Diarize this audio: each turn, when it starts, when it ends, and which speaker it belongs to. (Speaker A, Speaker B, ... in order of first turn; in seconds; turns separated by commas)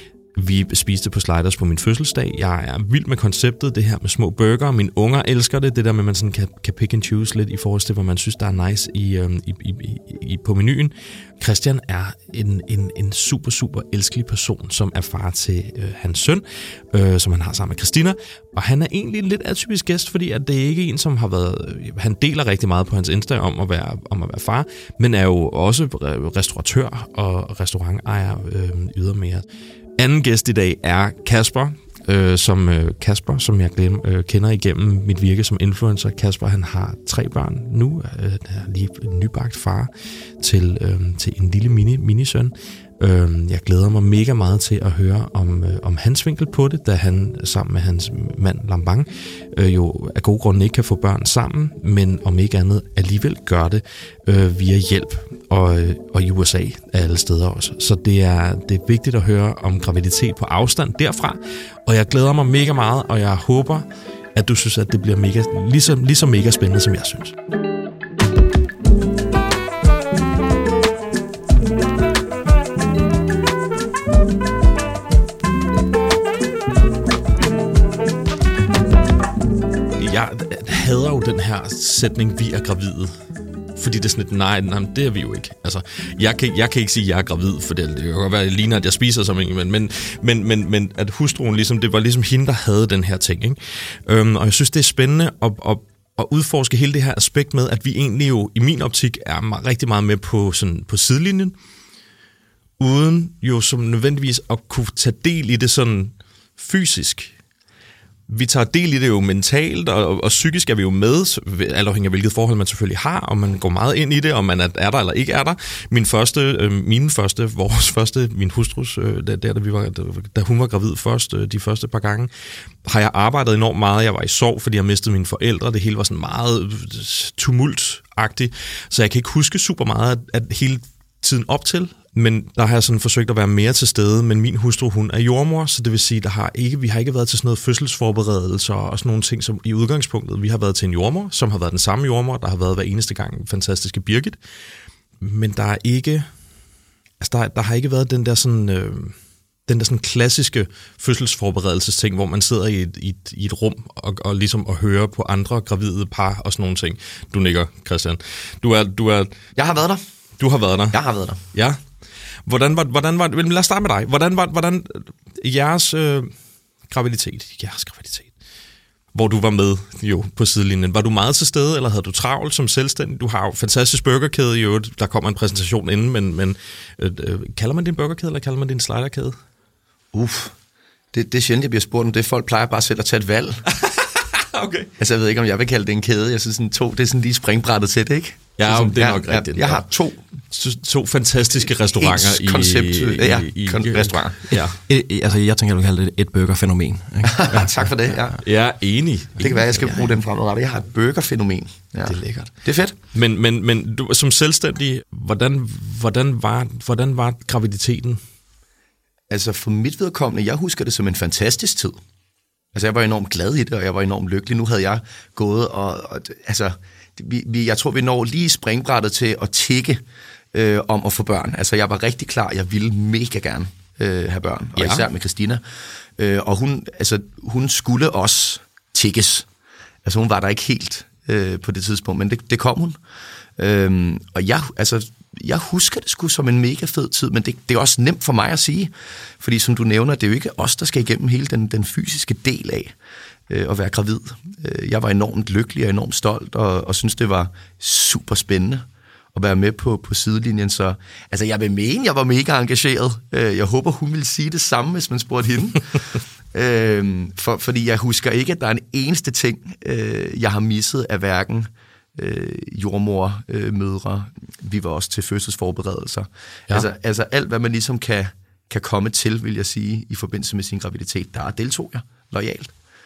Speaker A: 0.3-29.4, Speaker A: 30.0-67.3, Speaker A: 80.0-83.2, Speaker A: 83.8-101.5, Speaker A: 102.8-107.3, Speaker A: 108.3-122.3, Speaker A: 122.8-144.4, Speaker A: 145.2-146.3, Speaker A: 147.2-159.3, Speaker B: 159.6-160.0, Speaker A: 160.4-161.0, Speaker B: 160.9-161.4, Speaker A: 161.5-161.8, Speaker A: 162.4-166.3, Speaker A: 166.9-168.3, Speaker A: 169.1-179.3, Speaker B: 180.1-180.5, Speaker B: 181.1-183.6, Speaker A: 183.8-184.9, Speaker B: 185.0-190.2, Speaker A: 188.6-189.8, Speaker A: 190.5-194.8, Speaker B: 191.9-194.4, Speaker C: 194.5-198.4, Speaker B: 197.2-198.4, Speaker A: 198.4-200.0, Speaker B: 199.4-202.9, Speaker A: 202.1-202.5, Speaker A: 203.1-208.2, Speaker B: 209.3-212.0, Speaker B: 212.7-220.0, Speaker B: 220.5-225.6, Speaker A: 224.8-225.0, Speaker B: 226.2-229.5, Speaker B: 230.0-233.0, Speaker B: 233.6-242.9, Speaker B: 243.5-255.8, Speaker B: 256.5-272.7